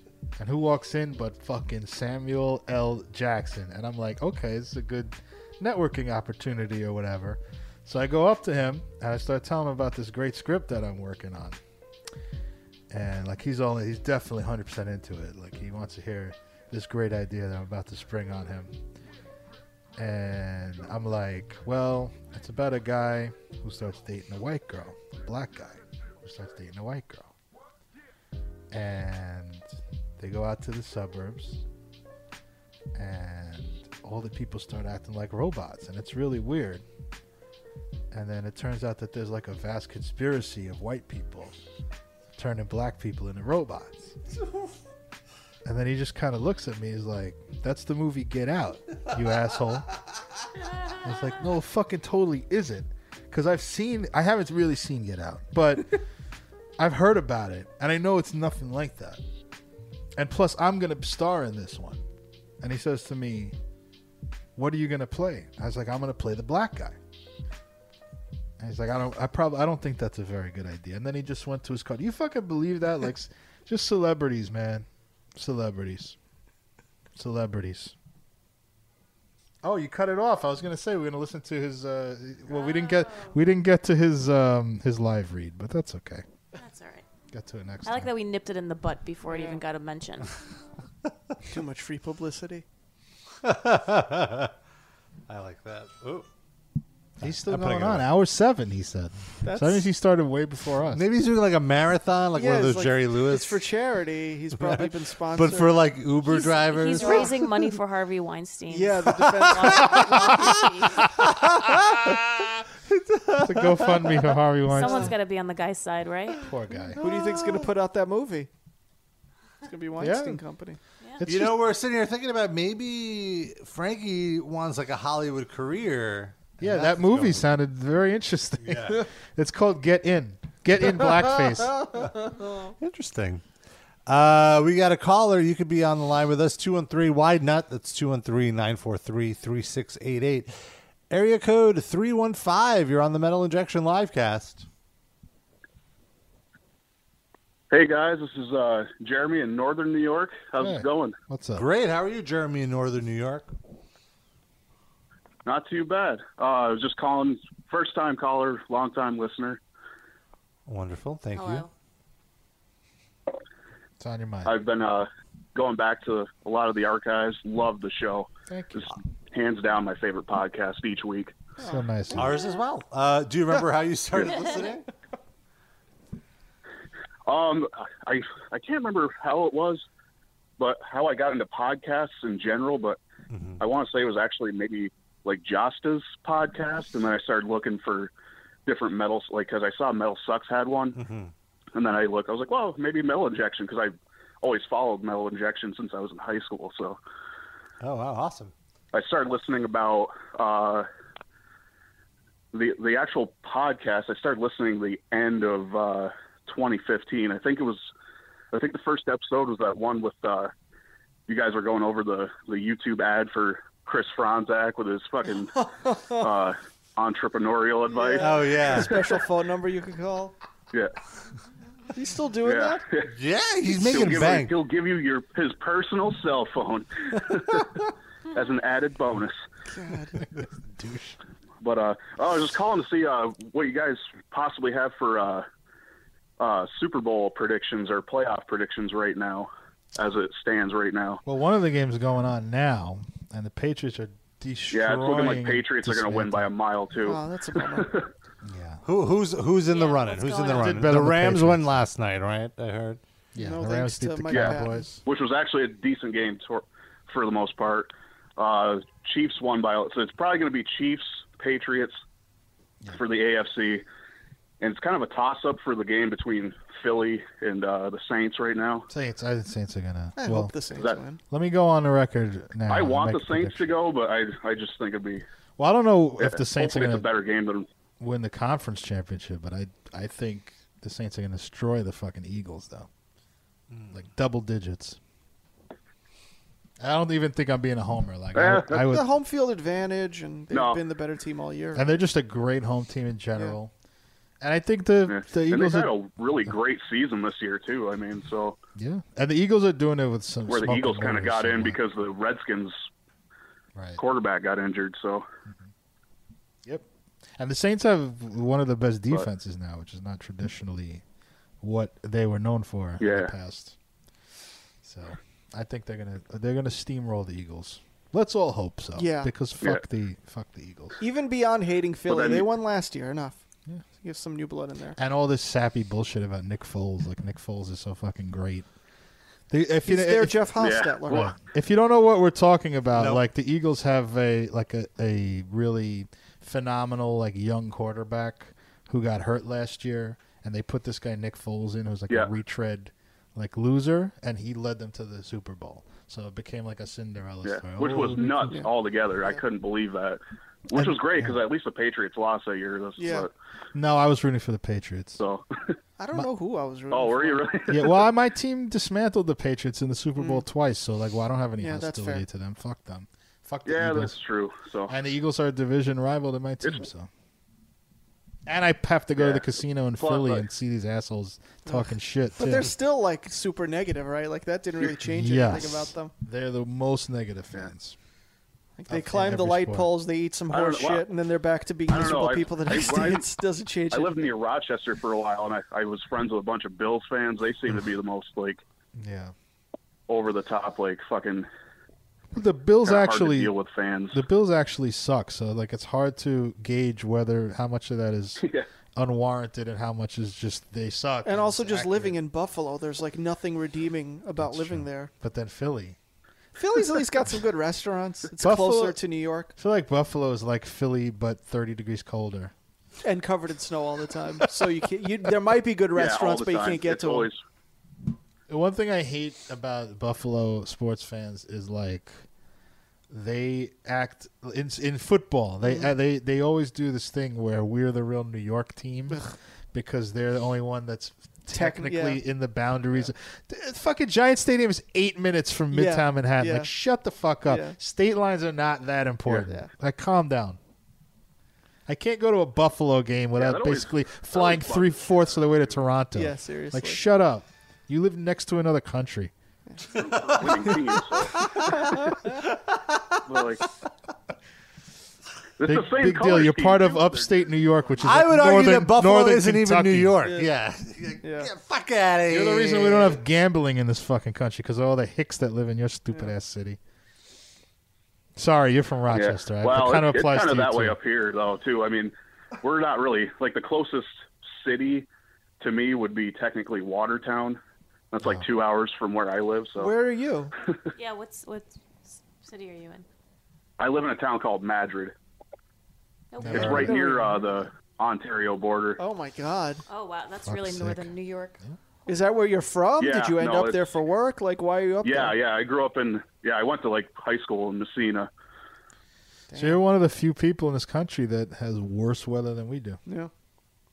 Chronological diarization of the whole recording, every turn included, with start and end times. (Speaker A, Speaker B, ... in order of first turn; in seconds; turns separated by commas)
Speaker A: 0.4-11.6, Speaker A: 12.9-18.8, Speaker A: 20.0-27.3, Speaker A: 28.7-31.6, Speaker A: 32.9-36.8, Speaker A: 38.1-41.6, Speaker A: 42.4-44.2, Speaker A: 45.6-49.9, Speaker A: 51.0-56.0, Speaker A: 56.8-59.2, Speaker A: 60.2-62.0, Speaker A: 62.6-63.5, Speaker A: 64.6-67.0, Speaker A: 68.6-76.2, Speaker A: 77.2-77.9, Speaker A: 79.6-86.2, Speaker B: 82.5-83.4, Speaker B: 86.6-87.1, Speaker A: 87.3-88.1, Speaker B: 87.8-90.3, Speaker C: 89.3-89.6, Speaker C: 91.5-92.7, Speaker D: 93.4-94.5, Speaker D: 95.3-96.3, Speaker D: 97.2-98.1, Speaker A: 97.2-101.0, Speaker C: 99.4-99.9, Speaker D: 100.9-103.6, Speaker C: 102.3-105.8, Speaker D: 104.6-107.3, Speaker B: 106.3-111.1, Speaker C: 107.0-107.7, Speaker C: 108.7-110.6, Speaker D: 111.4-112.1, Speaker A: 112.2-112.5, Speaker D: 112.9-114.1, Speaker A: 113.4-115.1, Speaker B: 114.7-116.5, Speaker C: 114.8-115.1, Speaker A: 116.4-117.0, Speaker C: 117.0-118.5, Speaker C: 119.6-120.8, Speaker A: 120.0-120.4, Speaker A: 121.2-121.7, Speaker D: 121.2-127.5, Speaker A: 126.6-131.9, Speaker D: 128.6-129.1, Speaker D: 132.8-133.4, Speaker D: 134.1-140.6, Speaker D: 141.1-144.7, Speaker E: 147.7-151.2, Speaker A: 150.6-151.7, Speaker D: 151.6-153.5, Speaker E: 155.4-159.6, Speaker D: 160.7-161.7, Speaker B: 161.3-161.7, Speaker A: 164.0-164.6, Speaker E: 164.4-171.4, Speaker A: 168.5-168.9, Speaker C: 171.6-172.2, Speaker A: 171.6-172.3, Speaker D: 172.2-174.8, Speaker E: 177.3-179.8, Speaker E: 180.6-183.0, Speaker D: 183.3-183.6, Speaker E: 183.6-188.1, Speaker E: 188.7-191.0, Speaker D: 190.9-191.3, Speaker E: 191.8-197.0, Speaker D: 197.8-198.5, Speaker E: 198.9-200.9, Speaker E: 202.5-207.9, Speaker E: 208.5-210.5, Speaker E: 211.3-215.5, Speaker C: 215.5-216.3, Speaker E: 216.2-218.9, Speaker C: 217.9-220.3, Speaker D: 218.2-219.0, Speaker C: 221.9-222.8, Speaker E: 222.4-223.1, Speaker D: 223.1-224.5, Speaker E: 223.7-227.7, Speaker E: 228.3-229.4, Speaker C: 229.7-230.3, Speaker A: 230.4-231.2, Speaker E: 231.6-235.5, Speaker E: 236.4-241.2, Speaker A: 241.2-246.5, Speaker E: 244.7-248.1, Speaker C: 247.0-247.9, Speaker A: 248.4-248.8, Speaker D: 248.8-253.0, Speaker B: 249.7-250.8, Speaker A: 250.5-251.8, Speaker A: 253.3-254.9, Speaker C: 253.4-255.0, Speaker E: 254.3-262.0, Speaker E: 262.9-263.8, Speaker E: 264.6-268.9, Speaker A: 268.9-270.5, Speaker C: 270.2-271.2, Speaker A: 271.3-273.7, Speaker E: 272.7-275.2, Speaker A: 275.6-277.1, Speaker E: 276.2-277.7, Speaker A: 278.0-282.9, Speaker D: 283.7-283.9, Speaker A: 283.9-285.0, Speaker A: 286.8-289.1, Speaker E: 288.4-288.8, Speaker C: 288.9-291.9, Speaker E: 290.5-290.8, Speaker A: 291.8-293.7, Speaker A: 294.4-295.9, Speaker E: 295.1-298.6, Speaker A: 298.8-301.8, Speaker E: 300.5-302.8, Speaker A: 303.8-304.0, Speaker E: 304.0-305.3, Speaker A: 307.4-311.0, Speaker A: 311.6-313.8, Speaker E: 313.0-313.3, Speaker A: 314.8-321.0, Speaker C: 319.0-319.3, Speaker C: 321.0-323.4, Speaker E: 322.1-322.5, Speaker C: 324.0-325.0, Speaker A: 325.0-328.7, Speaker A: 329.5-330.4, Speaker C: 329.9-331.4, Speaker E: 330.6-331.3, Speaker A: 331.3-348.6, Speaker D: 332.9-333.3, Speaker E: 347.4-353.3, Speaker A: 350.7-351.4, Speaker C: 353.0-353.3, Speaker A: 353.7-355.2, Speaker E: 355.2-355.4, Speaker C: 356.0-357.5, Speaker E: 356.9-358.0, Speaker A: 357.7-364.2, Speaker C: 360.2-360.4, Speaker C: 361.6-362.2, Speaker E: 363.7-364.9, Speaker A: 364.9-367.1, Speaker A: 368.5-372.7, Speaker E: 369.2-370.5, Speaker C: 372.4-376.1, Speaker A: 375.1-378.0, Speaker C: 378.8-384.3, Speaker A: 378.9-379.9, Speaker E: 380.5-381.1, Speaker E: 381.9-383.3, Speaker E: 383.9-388.6, Speaker A: 389.0-389.3, Speaker E: 390.1-391.5, Speaker A: 392.3-393.5, Speaker E: 392.8-394.2, Speaker A: 394.1-402.2, Speaker E: 398.4-398.7, Speaker C: 401.2-405.1, Speaker A: 404.4-406.0, Speaker C: 406.6-409.5, Speaker A: 408.4-409.0, Speaker A: 409.6-412.5, Speaker C: 413.0-417.3, Speaker E: 415.9-417.4, Speaker A: 418.5-422.2, Speaker A: 423.1-429.2, Speaker C: 425.6-425.9, Speaker A: 429.7-440.6, Speaker C: 431.5-432.2, Speaker C: 435.7-436.7, Speaker C: 437.4-437.8, Speaker C: 439.3-439.7, Speaker A: 441.9-449.3, Speaker E: 443.4-445.8, Speaker C: 446.1-447.0, Speaker E: 449.9-451.7, Speaker D: 452.7-453.2, Speaker E: 453.3-453.6, Speaker E: 455.6-458.0, Speaker A: 455.7-460.2, Speaker D: 458.0-463.2, Speaker C: 460.2-460.5, Speaker C: 461.2-461.5, Speaker A: 462.3-466.8, Speaker A: 468.4-471.0, Speaker E: 469.1-475.1, Speaker E: 475.6-477.6, Speaker E: 478.1-479.9, Speaker C: 479.8-480.5, Speaker B: 481.0-483.1, Speaker E: 483.8-485.1, Speaker B: 486.3-487.2, Speaker A: 486.4-486.9, Speaker E: 486.5-489.0, Speaker C: 486.5-487.4, Speaker C: 489.0-489.8, Speaker B: 489.9-491.6, Speaker A: 490.5-491.1, Speaker C: 492.1-495.4, Speaker E: 493.0-493.9, Speaker E: 495.0-498.3, Speaker C: 499.5-499.8, Speaker A: 499.6-503.0, Speaker C: 503.1-503.3